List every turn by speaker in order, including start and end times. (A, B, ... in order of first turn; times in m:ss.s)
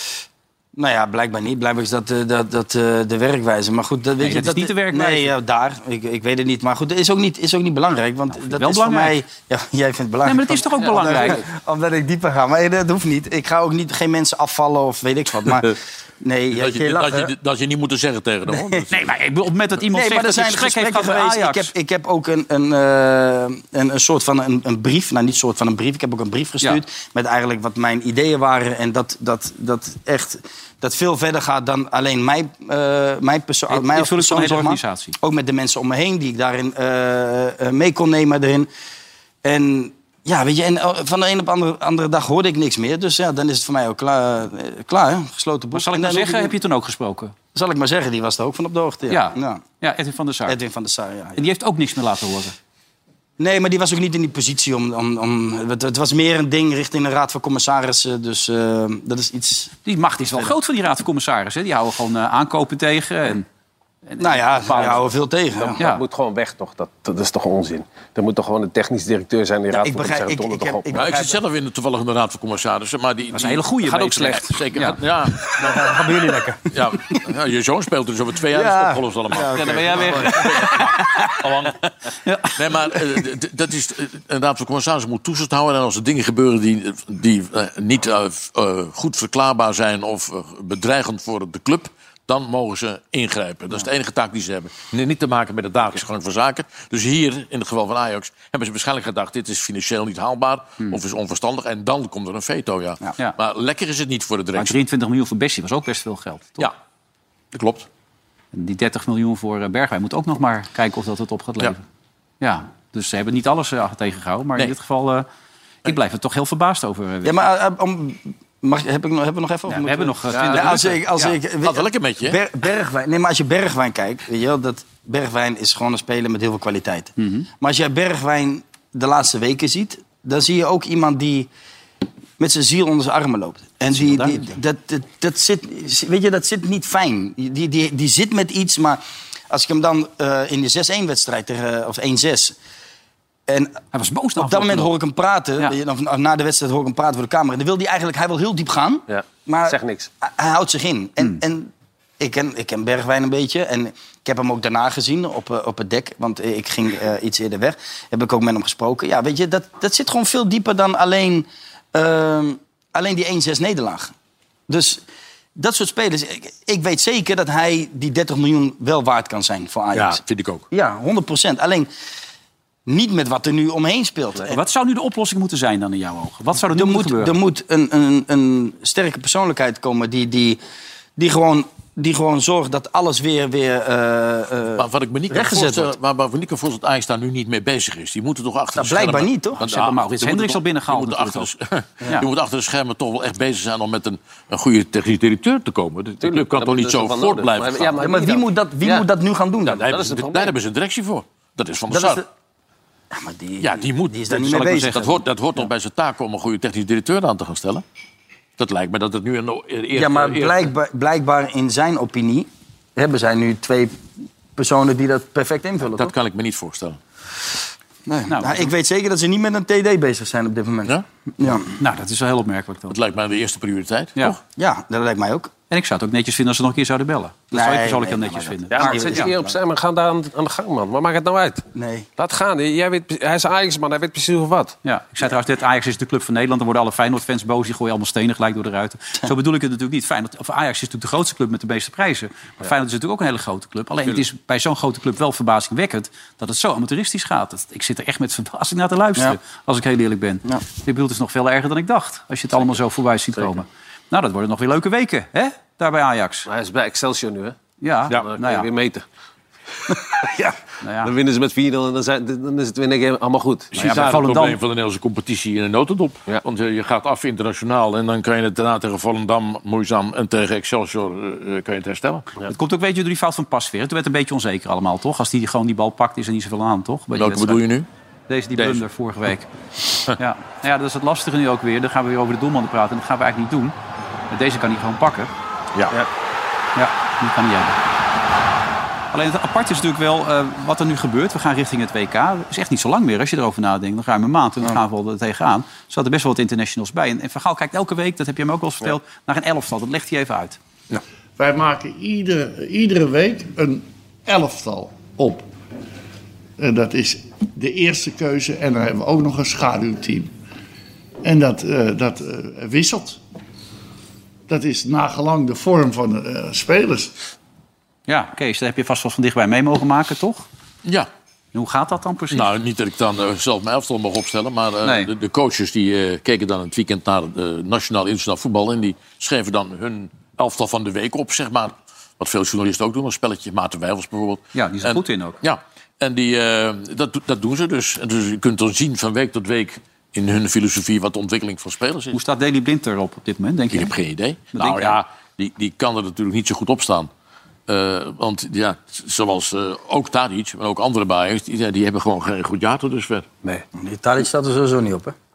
0:00.8-0:17.3 A
0:04.2-0:05.3 B
0:08.4-0:09.2 B
0:10.2-0:11.4 B
0:16.5-0:19.1 C
0:18.5-0:18.8 A
0:18.9-0:21.7 B
0:19.9-0:38.7 A
0:33.7-0:35.2 B
0:39.4-0:46.5 A
0:45.7-0:47.3 B
0:47.5-0:49.6 A
0:49.1-0:50.6 B
0:50.4-0:51.4 A
0:51.4-0:52.5 B
0:53.4-0:59.7 A
0:59.9-1:03.5 B
1:04.1-1:05.1 B
1:04.2-1:05.8 A
1:05.6-1:11.0 D
1:05.8-1:06.0 B
1:09.8-1:11.4 A
1:10.9-1:15.9 C
1:13.3-1:15.0 B
1:13.9-1:14.3 D
1:15.6-1:16.7 A
1:16.7-1:21.8 C
1:18.5-1:20.6 A
1:19.5-1:21.1 B
1:22.2-1:22.6 B
1:22.5-1:44.8 C
1:44.6-1:46.7 B
1:47.5-1:47.9 C
1:48.5-1:51.8 B
1:52.4-1:55.2 B
1:55.8-1:57.4 B
1:57.2-2:11.5 A
1:59.7-2:01.4 B
2:00.3-2:00.6 D
2:01.6-2:02.4 C
2:07.2-2:07.5 B
2:12.4-2:22.6 A
2:14.0-2:14.5 B
2:23.5-2:23.8 A
2:23.9-2:24.9 B
2:24.4-2:44.1 A
2:29.1-2:30.1 D
2:44.7-2:45.0 A
2:45.6-2:50.2 A
2:49.9-2:50.6 C
2:50.7-2:51.9 A
2:52.9-2:54.6 A
2:54.5-2:57.4 B
2:56.7-3:00.6 A
3:01.2-3:05.9 A
3:04.8-3:18.0 C
3:08.8-3:09.6 A
3:09.6-3:11.5 B
3:16.2-3:19.1 D
3:18.0-3:19.9 A
3:19.7-3:22.2 C
3:19.7-3:20.5 D
3:21.9-3:22.2 A
3:23.1-3:25.1 A
3:23.6-3:27.8 C
3:24.3-3:25.2 B
3:28.6-3:30.7 C
3:29.9-3:34.0 A
3:34.6-3:36.1 A
3:35.9-3:37.0 C
3:38.0-3:41.7 A
3:38.3-3:38.7 B
3:41.8-3:43.0 B
3:42.9-3:44.4 C
3:44.6-3:45.5 A
3:45.7-3:49.3 B
3:47.5-3:49.4 A
3:48.7-3:51.6 D
3:51.7-3:52.1 A
3:52.2-3:54.7 D
3:54.8-4:16.5 B
4:16.5-4:17.6 D
4:17.8-4:18.7 B
4:18.1-4:19.0 D
4:19.9-4:23.8 D
4:20.8-4:21.1 B
4:23.7-4:32.2 C
4:23.7-4:24.6 B
4:32.5-4:37.6 B
4:37.1-4:37.9 C
4:38.3-4:39.5 B
4:38.6-4:38.8 C
4:40.1-4:43.7 B
4:44.3-4:45.3 B
4:46.8-4:47.8 B
4:49.1-5:00.6 B
5:01.4-5:05.5 E
5:06.6-5:10.4 E
5:11.2-5:13.2 E
5:14.5-5:17.1 E
5:18.1-5:20.4 B
5:21.5-5:22.5 B
5:22.3-5:42.2 C
5:24.8-5:25.1 B
5:34.5-5:35.4 B
5:42.1-5:43.9 B
5:43.7-5:47.1 C
5:44.5-5:45.0 B
5:47.7-5:53.2 C
5:53.7-5:55.1 A